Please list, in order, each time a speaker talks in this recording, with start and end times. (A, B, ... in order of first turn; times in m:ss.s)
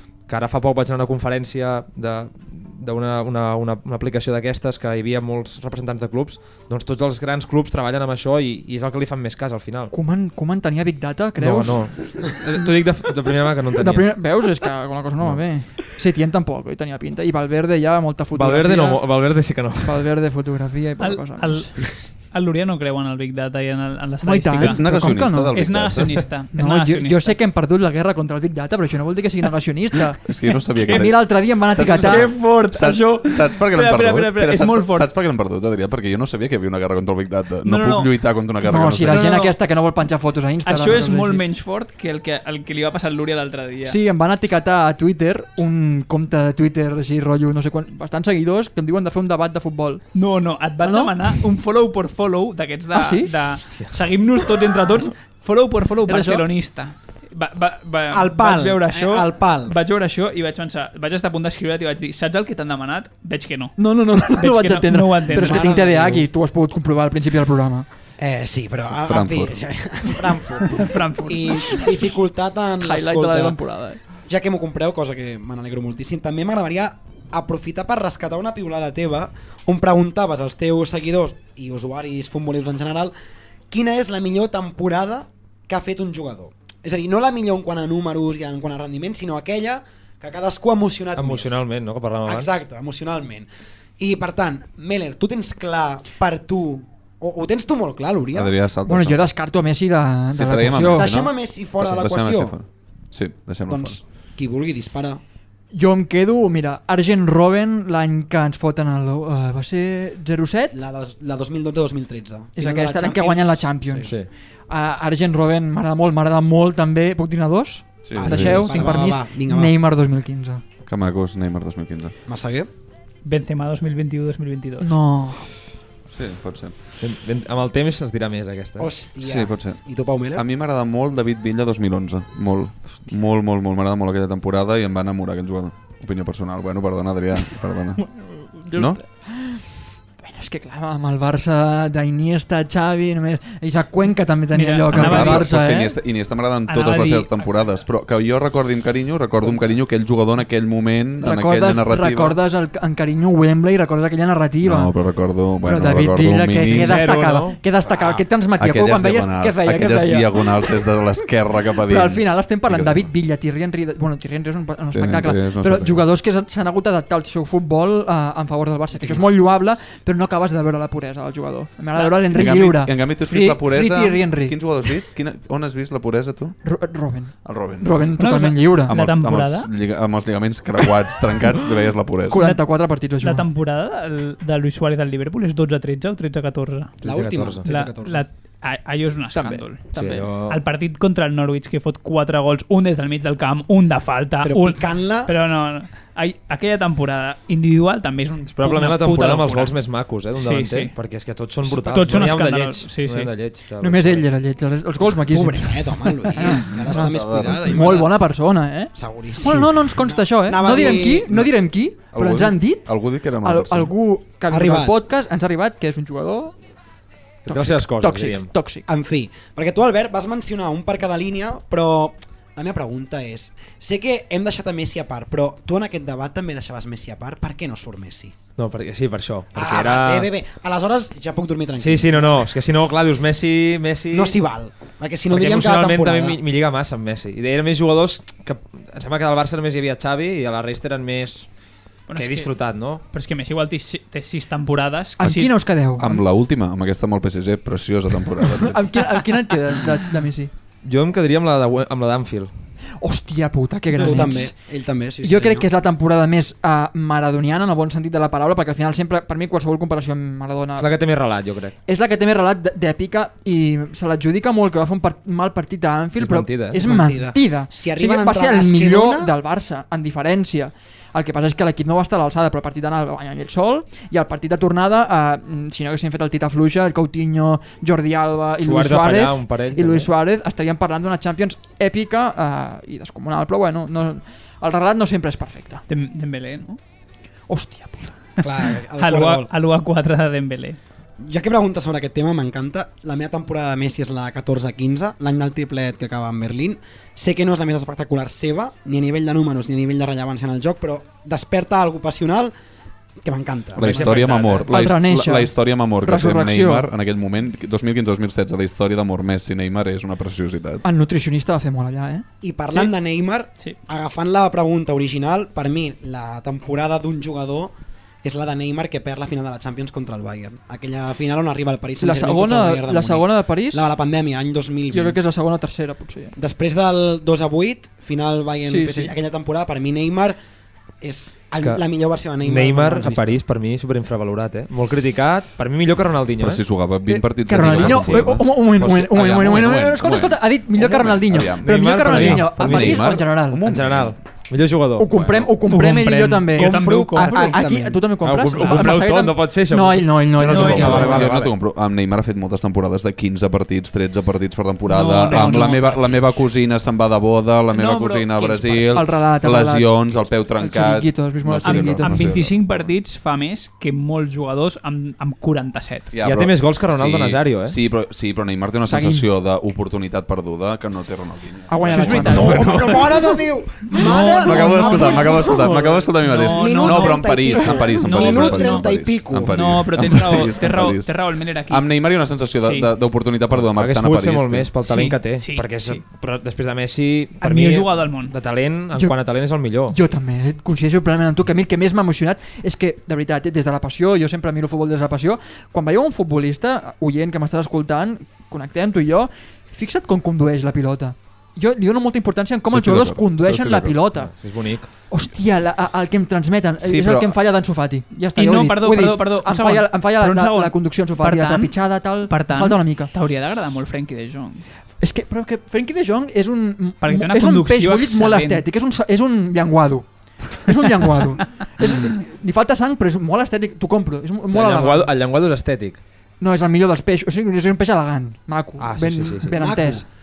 0:00.3-0:09.9 A
0:09.9-0:12.8 B
0:11.4-0:14.2 A
0:13.7-0:19.3 B
0:18.3-0:20.1 A
0:19.8-0:21.8 B
0:21.0-0:27.4 C
0:24.2-0:25.6 B
0:24.6-0:26.4 D
0:26.5-0:32.4 B
0:30.3-0:39.3 D
0:31.8-0:35.1 C
0:37.6-0:38.5 C
0:38.6-0:41.4 B
0:39.1-0:39.6 C
0:40.6-0:44.0 C
0:43.8-0:50.0 B
0:50.2-1:05.7 C
0:50.8-0:51.2 B
0:52.9-0:53.3 B
0:56.1-0:56.5 B
0:58.1-0:59.8 E
1:03.8-1:07.9 B
1:05.4-1:06.2 E
1:08.2-1:13.6 E
1:09.0-1:09.7 D
1:10.7-1:11.9 C
1:11.7-1:12.1 B
1:12.8-1:14.0 B
1:14.2-1:23.1 E
1:23.7-1:31.6 E
1:31.2-1:32.6 A
1:32.3-1:33.5 E
1:34.0-1:38.5 E
1:38.4-1:39.3 D
1:38.9-1:41.2 B
1:40.3-1:44.0 D
1:40.9-1:42.6 E
1:43.7-1:45.2 E
1:45.7-1:50.8 B
1:50.7-1:54.1 E
1:52.6-1:54.2 B
1:54.7-2:00.6 B
1:58.0-1:58.8 D
1:58.2-1:59.8 E
2:00.8-2:02.2 D
2:02.3-2:02.7 E
2:03.2-2:04.9 C
2:04.8-2:05.6 B
2:06.1-2:06.8 D
2:07.0-2:08.9 A
2:08.8-2:10.4 E
2:09.2-2:09.8 D
2:10.3-2:18.0 D
2:18.7-2:25.9 B
2:18.7-2:19.0 D
2:24.5-2:25.5 C
2:24.9-2:32.4 D
2:26.7-2:27.7 C
2:31.2-2:35.0 B
2:34.6-2:37.0 D
2:35.6-2:40.8 B
2:36.7-2:37.6 A
2:37.9-2:43.1 D
2:41.9-2:54.8 B
2:44.9-2:46.0 D
2:52.3-2:56.6 D
2:56.6-2:59.0 B
2:57.4-2:58.2 D
2:58.2-2:59.7 C
2:58.9-3:02.4 D
3:02.3-3:03.5 B
3:02.3-3:07.0 C
3:07.0-3:07.7 A
3:07.0-3:08.3 E
3:07.6-3:19.8 C
3:09.4-3:09.7 B
3:09.9-3:10.6 A
3:14.4-3:15.3 E
3:18.5-3:24.3 A
3:20.3-3:20.9 C
3:21.6-3:23.3 C
3:23.8-3:36.6 B
3:25.0-3:28.2 E
3:26.9-3:27.8 D
3:28.9-3:31.5 E
3:32.1-3:33.9 D
3:34.5-3:35.0 E
3:37.5-3:38.5 A
3:37.5-3:38.9 B
3:38.9-3:48.4 E
3:48.6-3:50.3 A
3:49.5-3:52.4 E
3:51.8-3:54.4 A
3:54.1-3:56.4 E
3:55.3-4:01.5 A
4:02.1-4:02.5 C
4:02.2-4:03.0 A
4:03.0-4:05.5 C
4:05.2-4:06.2 B
4:06.0-4:08.8 D
4:08.5-4:10.5 B
4:10.8-4:12.5 A
4:13.0-4:21.1 B
4:13.9-4:15.7 E
4:20.8-4:21.8 A
4:21.9-4:45.8 B
4:26.2-4:26.8 A
4:26.8-4:29.3 E
4:38.6-4:40.1 A
4:45.9-4:46.8 C
4:47.5-4:48.2 B
4:48.4-4:49.5 E
4:49.0-4:50.8 C
4:51.2-5:02.5 E
5:03.2-5:03.9 E
5:03.8-5:10.8 D
5:03.8-5:04.7 A
5:04.7-5:06.9 B
5:10.8-5:12.3 B
5:12.4-5:25.2 E
5:22.0-5:24.0 B
5:24.9-5:26.4 B
5:26.4-5:30.4 E
5:28.7-5:29.1 B
5:31.0-5:33.4 E
5:32.4-5:36.6 A
5:36.4-5:44.2 D
5:37.1-5:43.6 B
5:37.6-5:38.4 A
5:41.6-5:45.3 A
5:45.0-5:51.3 B
5:45.1-5:45.5 D
5:45.7-5:47.5 C
5:46.5-5:48.0 E
5:48.2-5:51.5 A
5:50.4-6:02.9 D
5:50.5-5:51.2 C
5:54.9-5:56.4 C
5:55.3-5:55.9 B
5:57.7-5:59.0 C
5:58.9-6:02.3 B
6:01.6-6:06.1 C
6:06.1-6:13.0 D
6:06.2-6:07.8 A
6:08.9-6:09.3 B
6:11.7-6:12.8 B
6:11.8-6:12.9 C
6:12.3-6:15.5 E
6:13.9-6:18.9 C
6:14.0-6:15.6 B
6:14.0-6:24.7 D
6:16.5-6:19.6 E
6:19.5-6:22.9 C
6:23.6-6:30.0 A
6:24.8-6:26.0 C
6:27.4-6:28.3 C
6:29.9-6:53.1 B
6:42.7-6:44.0 D
6:44.1-6:44.9 A
6:46.8-6:47.4 D
6:48.4-6:54.7 C
6:55.0-7:05.1 B
6:57.0-6:58.6 C
7:04.5-7:06.0 A
7:06.4-7:10.0 B
7:08.8-7:09.6 A
7:09.5-7:10.0 E